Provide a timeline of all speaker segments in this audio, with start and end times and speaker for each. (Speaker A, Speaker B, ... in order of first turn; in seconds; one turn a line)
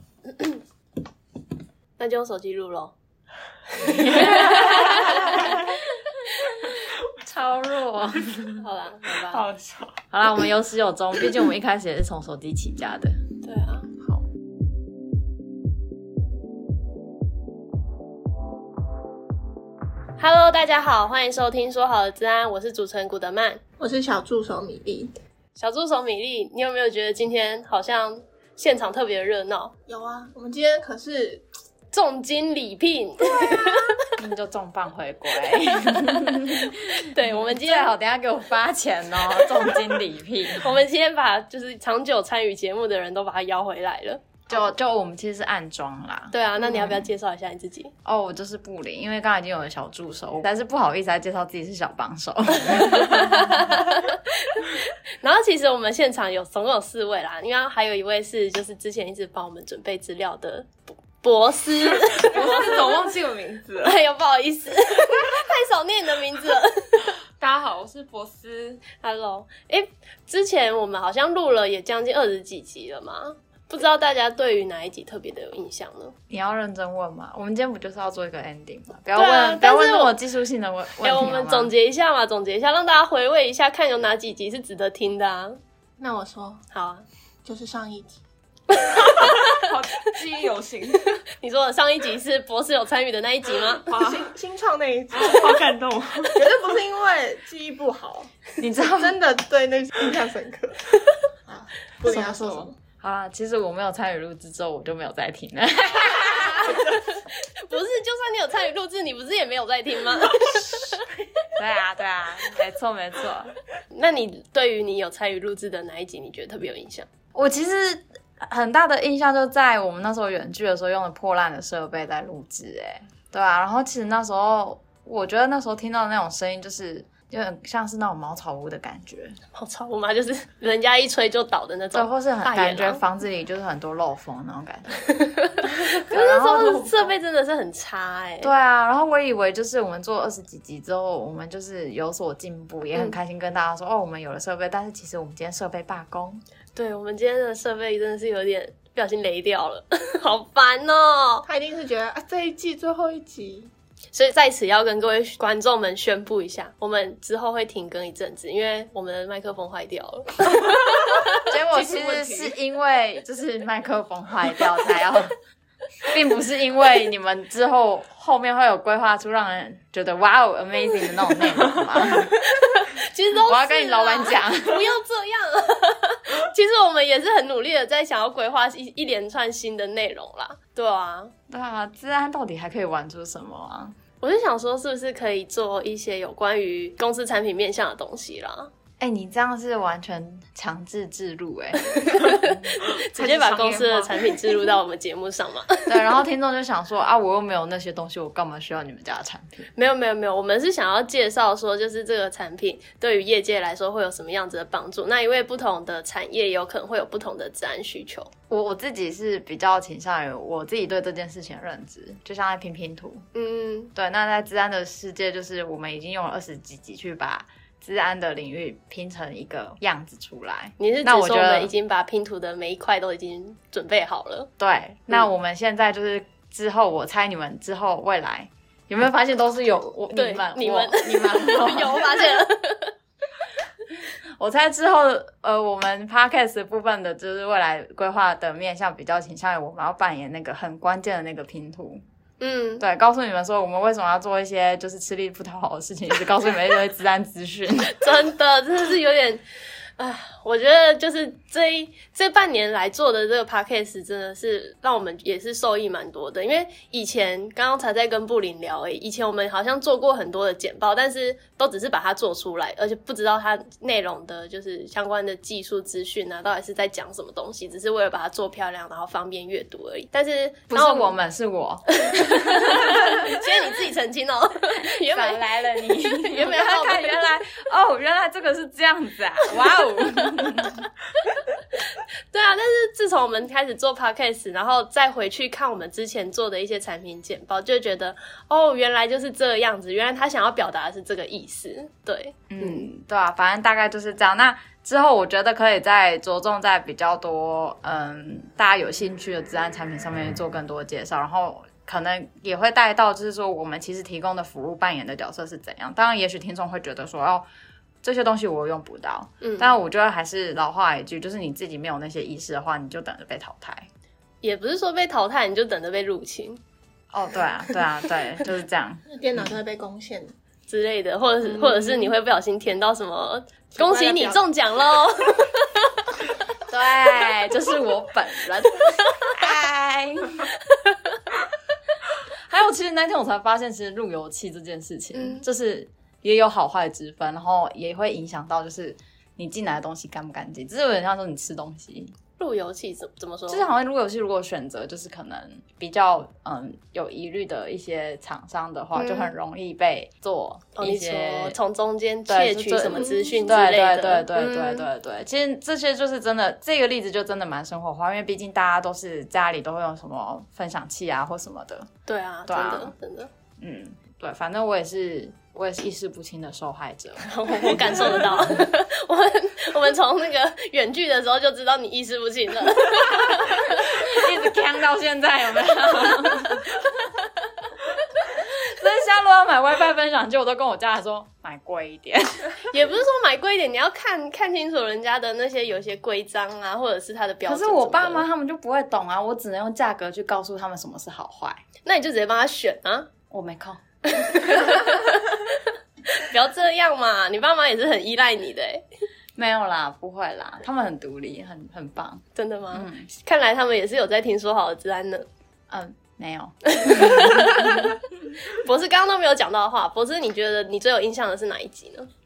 Speaker A: 2.0-2.9
Speaker B: 3.8-5.6
Speaker A: 3.8-5.6
Speaker B: 6.7-8.6
Speaker A: 8.6-9.4
Speaker C: 9.3-10.0
Speaker B: 10.1-13.2
Speaker A: 13.4-13.9
Speaker A: 20.2-23.6
Speaker D: 23.8-25.1
Speaker A: 25.5-29.7
Speaker D: 29.9-31.4
Speaker A: 31.9-33.9
Speaker B: 34.2-40.8
Speaker A: 36.4-37.9
Speaker A: 40.5-44.6
Speaker B: 44.5-47.1
Speaker A: 46.3-47.9
Speaker B: 48.0-53.7
Speaker A: 52.8-62.8
Speaker C: 62.3-64.0
Speaker A: 63.8-67.1
Speaker C: 67.4-68.8
Speaker A: 68.9-76.1
Speaker B: 76.3-81.7
Speaker A: 79.2-80.1
Speaker A: 81.0-85.6
Speaker D: 86.0-86.7
Speaker A: 86.7-87.0
Speaker D: 87.4-88.2
Speaker A: 88.7-89.5
Speaker C: 89.2-91.2
Speaker A: 91.3-93.9
Speaker C: 93.7-94.3
Speaker D: 93.9-95.8
Speaker C: 95.1-96.5
Speaker D: 96.3-98.3
Speaker B: 98.6-99.2
Speaker D: 98.9-100.9
Speaker D: 101.5-102.8
Speaker C: 102.1-102.7
Speaker B: 103.0-106.8
Speaker A: 106.6-111.1
Speaker B: 111.5-113.5
Speaker A: 113.9-117.1
Speaker B: 117.3-129.3
Speaker A: 129.5-133.0
Speaker B: 131.9-135.0
Speaker A: 135.6-138.5
Speaker B: 136.1-137.1
Speaker B: 138.4-146.4
Speaker A: 146.7-151.4
Speaker D: 151.4-153.7
Speaker A: 154.1-161.5
Speaker B: 161.5-165.3
Speaker C: 161.7-162.5
Speaker B: 166.0-172.3
Speaker A: 172.4-181.3
Speaker B: 173.4-174.9
Speaker B: 181.5-183.9
Speaker A: 184.2-188.7
Speaker B: 189.0-192.8
Speaker A: 191.9-195.9
Speaker C: 193.0-194.2
Speaker B: 195.9-199.7
Speaker A: 199.7-208.3
Speaker B: 208.5-213.3
Speaker A: 213.3-213.9
Speaker B: 213.9-221.7
Speaker A: 220.8-224.5
Speaker B: 224.6-232.4
Speaker A: 230.1-232.9
Speaker B: 234.4-242.0
Speaker A: 242.4-242.8
Speaker B: 242.8-248.1
Speaker A: 247.9-249.4
Speaker A: 250.0-271.1
Speaker B: 270.7-273.4
Speaker A: 272.0-277.3
Speaker B: 274.8-280.9
Speaker A: 281.9-292.9
Speaker B: 292.5-307.4
Speaker B: 308.0-313.9
Speaker A: 309.4-309.7
Speaker A: 314.4-316.6
Speaker B: 317.1-319.5
Speaker D: 319.1-320.3
Speaker A: 320.7-326.1
Speaker D: 323.7-324.4
Speaker B: 326.7-330.5
Speaker B: 332.5-342.1
Speaker A: 335.2-335.4
Speaker A: 342.4-343.7
Speaker B: 343.5-351.6
Speaker A: 348.9-349.4
Speaker A: 350.8-354.9
Speaker B: 352.3-361.9
Speaker D: 352.9-353.2
Speaker A: 362.1-363.3
Speaker B: 362.5-362.9
Speaker B: 363.6-368.3
Speaker A: 367.2-374.0
Speaker B: 373.7-376.8
Speaker B: 378.3-382.5
Speaker A: 382.7-388.3
Speaker B: 387.4-391.6
Speaker A: 391.8-393.1
Speaker B: 393.3-393.8
Speaker A: 394.1-395.6
Speaker A: 396.1-398.9
Speaker B: 399.4-403.1
Speaker A: 402.3-405.3
Speaker B: 405.7-407.9
Speaker A: 406.7-412.1